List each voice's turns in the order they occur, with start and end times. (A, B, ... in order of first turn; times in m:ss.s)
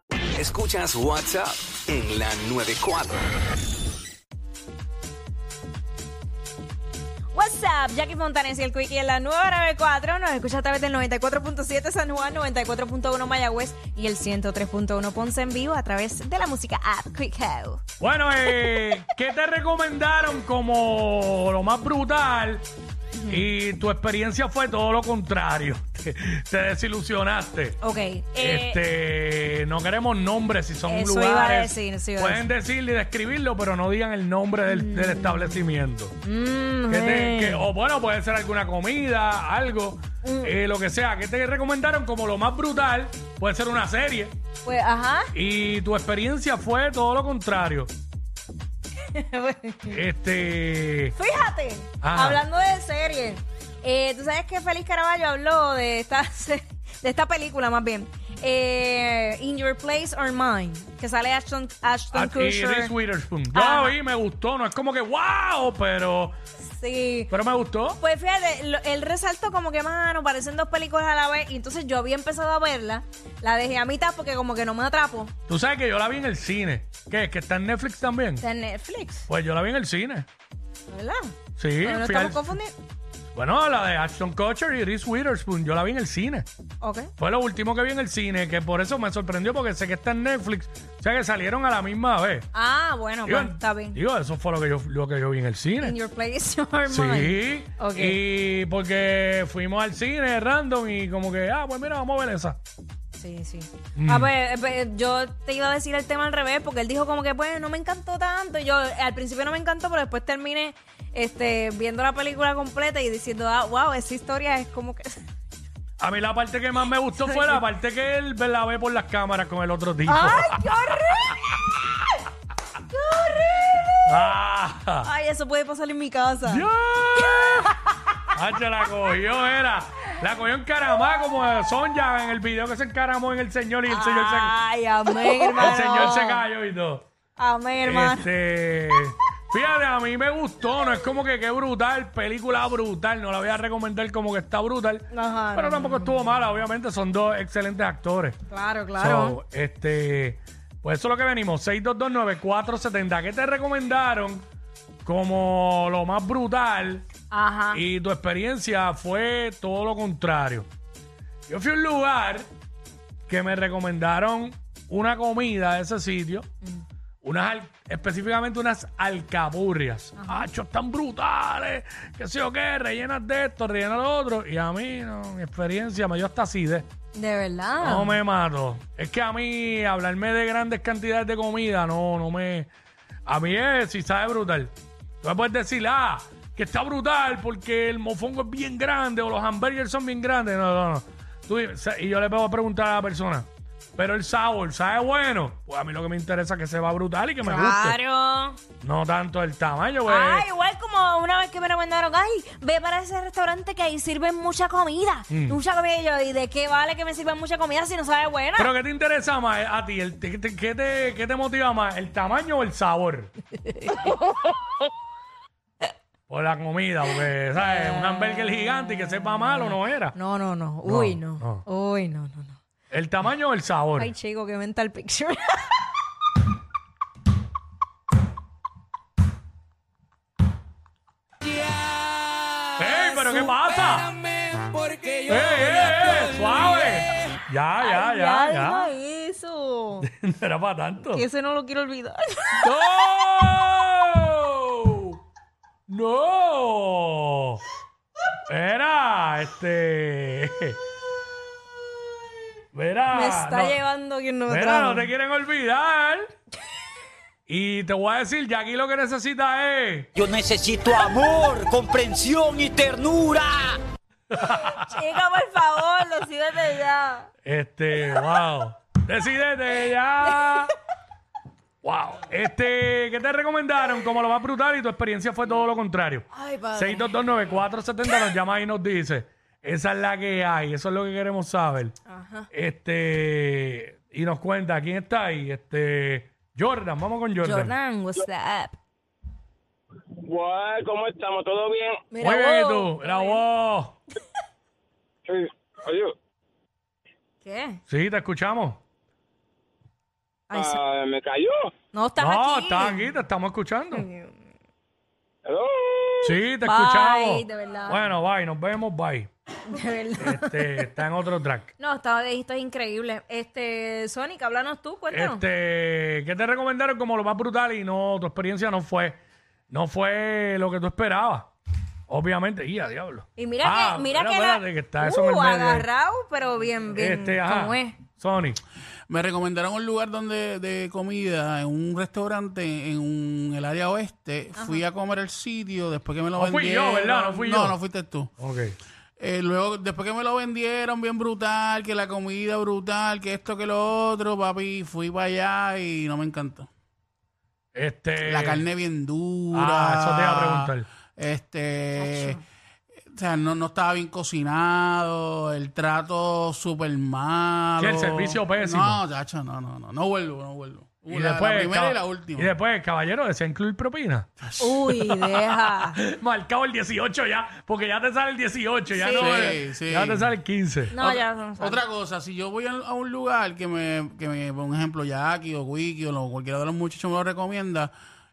0:00.4-0:03.2 A
0:07.3-0:17.8 B
0:18.0-0:22.6 C
0:23.2-0:23.4 B
0:23.3-0:27.8 C
0:27.8-0:28.8 B
0:28.4-0:36.2 C
0:30.9-0:32.5 B
0:34.7-0:35.6 B
0:36.2-0:37.7 B
0:36.9-0:44.3 C
0:40.2-0:40.6 B
0:44.6-0:45.3 B
0:45.3-0:47.9 C
0:49.1-0:50.0 B
0:49.9-0:51.1 C
0:51.2-1:02.9 B
0:52.0-0:52.4 C
1:02.1-1:06.4 C
1:03.5-1:04.0 B
1:06.8-1:07.3 B
1:07.3-1:08.0 C
1:08.0-1:15.3 B
1:15.5-1:18.4 C
1:18.4-1:19.3 B
1:19.3-1:20.3 C
1:20.9-1:22.8 B
1:21.6-1:22.4 C
1:23.4-1:26.5 C
1:26.8-1:27.1 B
1:27.2-1:32.5 C
1:32.5-1:34.0 B
1:33.2-1:36.0 C
1:35.8-1:38.2 B
1:36.9-1:42.6 C
1:43.2-1:55.2 B
1:44.0-1:44.3 C
1:56.0-2:00.6 C
1:57.2-1:57.6 B
2:00.1-2:02.0 B
2:02.9-2:03.9 B
2:04.0-2:05.1 C
2:05.0-2:06.7 B
2:06.4-2:07.7 C
2:07.2-2:07.7 B
2:08.3-2:14.6 C
2:13.9-2:16.4 B
2:15.2-2:17.1 C
2:17.4-2:18.3 B
2:17.8-2:28.4 C
2:25.1-2:26.2 B
2:28.5-2:29.4 B
2:29.0-2:34.4 C
2:35.0-2:37.1 C
2:37.3-2:37.8 B
2:37.7-2:40.7 C
2:41.5-2:42.5 C
2:43.3-2:46.5 C
2:47.2-2:56.9 C
2:50.2-2:50.5 B
2:57.2-2:58.2 B
2:57.8-3:02.7 C
3:03.3-3:18.0 C
3:17.4-3:18.6 B
3:18.8-3:20.5 C
3:20.0-3:28.7 B
3:25.3-3:25.6 C
3:28.6-3:33.3 C
3:33.7-3:34.3 B
3:36.3-3:40.2 C
3:37.6-3:42.6 B
3:40.8-3:41.6 C
3:42.9-3:44.1 C
3:44.0-3:45.8 B
3:52.8-3:54.2 C
3:52.9-3:53.5 B
3:55.2-3:58.9 C
3:57.8-4:00.1 B
4:00.0-4:01.2 C
4:01.0-4:02.7 B
4:02.6-4:05.2 C
4:05.9-4:07.6 C
4:08.5-4:10.8 C
4:12.7-4:13.8 C
4:13.1-4:15.1 B
4:14.5-4:16.3 C
4:17.5-4:20.1 C
4:20.2-4:23.8 D
4:24.3-4:24.9 C
4:24.4-4:27.3 B
4:27.4-4:30.8 C
4:30.4-4:30.6 B
4:31.8-4:42.0 C
4:36.3-4:37.1 B
4:42.1-4:42.5 B
4:42.5-4:47.8 C
4:47.4-4:48.8 B
4:50.3-4:51.9 E
4:50.6-4:51.9 A
4:52.1-4:53.4 B
4:52.2-4:54.0 C
4:55.3-4:56.1 E
4:57.4-4:57.8 B
4:57.9-4:58.8 C
5:00.5-5:00.8 B
5:00.6-5:01.4 A
5:00.6-5:01.6 E
5:01.9-5:03.1 B
5:02.2-5:04.1 C
5:03.9-5:04.4 B
5:05.4-5:06.3 E
5:06.2-5:09.3 C
5:06.6-5:08.1 B
5:09.6-5:10.7 B
5:10.2-5:11.7 C
5:11.8-5:15.4 B
5:15.1-5:19.2 C
5:19.7-5:21.5 C
5:22.1-5:25.9 C
5:23.4-5:28.0 B
5:26.9-5:28.6 C
5:29.1-5:38.3 F
5:34.6-5:34.8 B
5:36.4-5:37.8 C
5:38.4-5:38.8 C
5:39.2-5:46.7 F
5:47.8-5:48.7 C
5:48.2-5:52.4 F
5:49.5-5:50.9 C
5:52.0-5:52.4 B
5:53.1-6:02.5 F
5:57.8-5:59.0 C
6:01.1-6:04.3 C
6:04.5-6:05.1 F
6:04.6-6:06.0 B
6:05.2-6:10.9 C
6:08.9-6:09.6 B
6:09.2-6:10.4 F
6:10.9-6:11.8 B
6:11.0-6:17.9 F